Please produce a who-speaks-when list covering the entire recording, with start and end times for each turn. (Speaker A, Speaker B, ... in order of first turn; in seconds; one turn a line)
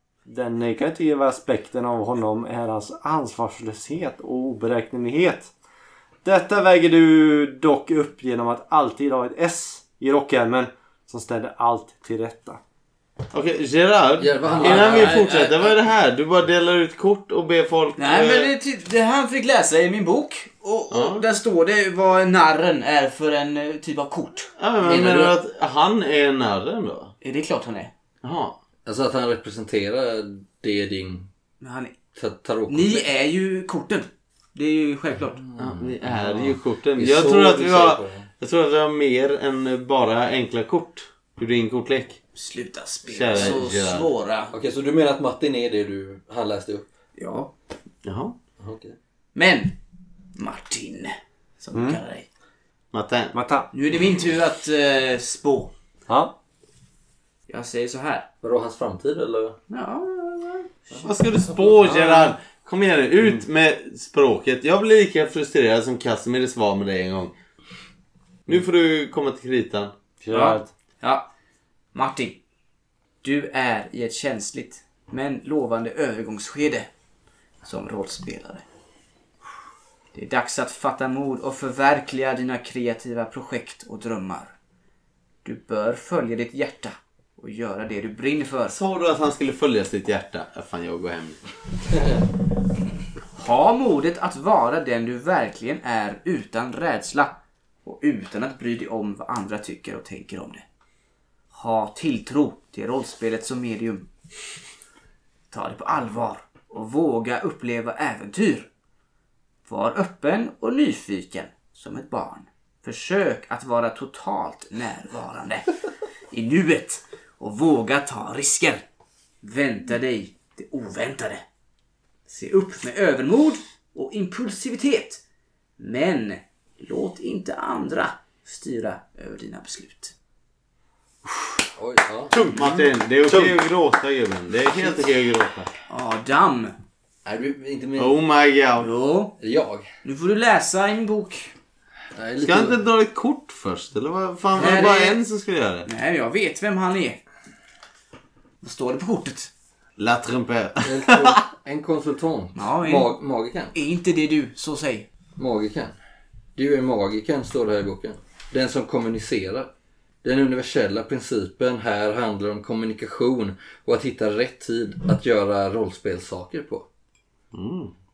Speaker A: 0.2-5.5
Speaker A: 6.2-12.6
Speaker B: 13.3-18.5
Speaker C: 14.2-15.7
Speaker D: 14.7-15.3
Speaker D: 18.0-25.3
Speaker B: 20.9-21.2
Speaker B: 24.6-27.1
Speaker D: 27.2-27.9
Speaker B: 28.2-28.6
Speaker C: 28.9-31.3
Speaker D: 31.6-31.9
Speaker C: 32.1-33.1
Speaker D: 32.7-35.4
Speaker C: 35.4-38.3
Speaker B: 35.6-42.2
Speaker D: 42.3-44.5
Speaker B: 43.0-44.1
Speaker C: 44.5-46.9
Speaker D: 47.1-47.5
Speaker B: 48.0-48.4
Speaker C: 48.6-49.0
Speaker D: 49.3-49.7
Speaker D: 50.4-52.2
Speaker A: 51.7-52.0
Speaker B: 52.9-53.4
Speaker A: 53.3-53.7
Speaker D: 53.7-55.7
Speaker A: 56.1-56.3
Speaker D: 57.5-58.3
Speaker C: 58.4-59.6
Speaker D: 59.7-61.0
Speaker B: 61.0-67.3
Speaker A: 61.8-62.3
Speaker B: 68.5-69.9
Speaker A: 70.2-70.7
Speaker D: 70.3-71.3
Speaker D: 71.9-72.4
Speaker D: 73.2-76.9
Speaker D: 77.6-78.6
Speaker D: 80.1-84.5
Speaker D: 85.4-88.8
Speaker B: 88.7-91.4
Speaker D: 93.3-100.6
Speaker D: 101.5-104.1
Speaker D: 105.5-108.7
Speaker D: 109.6-115.7
Speaker D: 116.3-118.8
Speaker D: 119.4-121.4
Speaker D: 122.3-125.2
Speaker D: 125.8-130.1
Speaker C: 131.7-132.3
Speaker B: 132.3-135.7
Speaker A: 132.6-133.6
Speaker D: 134.7-135.1
Speaker D: 135.9-136.8
Speaker C: 137.2-138.2
Speaker B: 138.0-138.9
Speaker D: 138.8-139.4
Speaker C: 139.4-139.8
Speaker D: 140.0-141.5
Speaker C: 142.2-142.8
Speaker B: 142.4-145.9
Speaker D: 144.5-145.2
Speaker D: 145.8-147.2
Speaker D: 148.6-149.5
Speaker B: 150.0-151.4
Speaker C: 150.8-153.7
Speaker D: 152.5-153.1
Speaker D: 153.7-155.1
Speaker C: 155.4-155.9
Speaker C: 156.6-159.7
Speaker C: 160.2-166.8
Speaker B: 167.5-167.9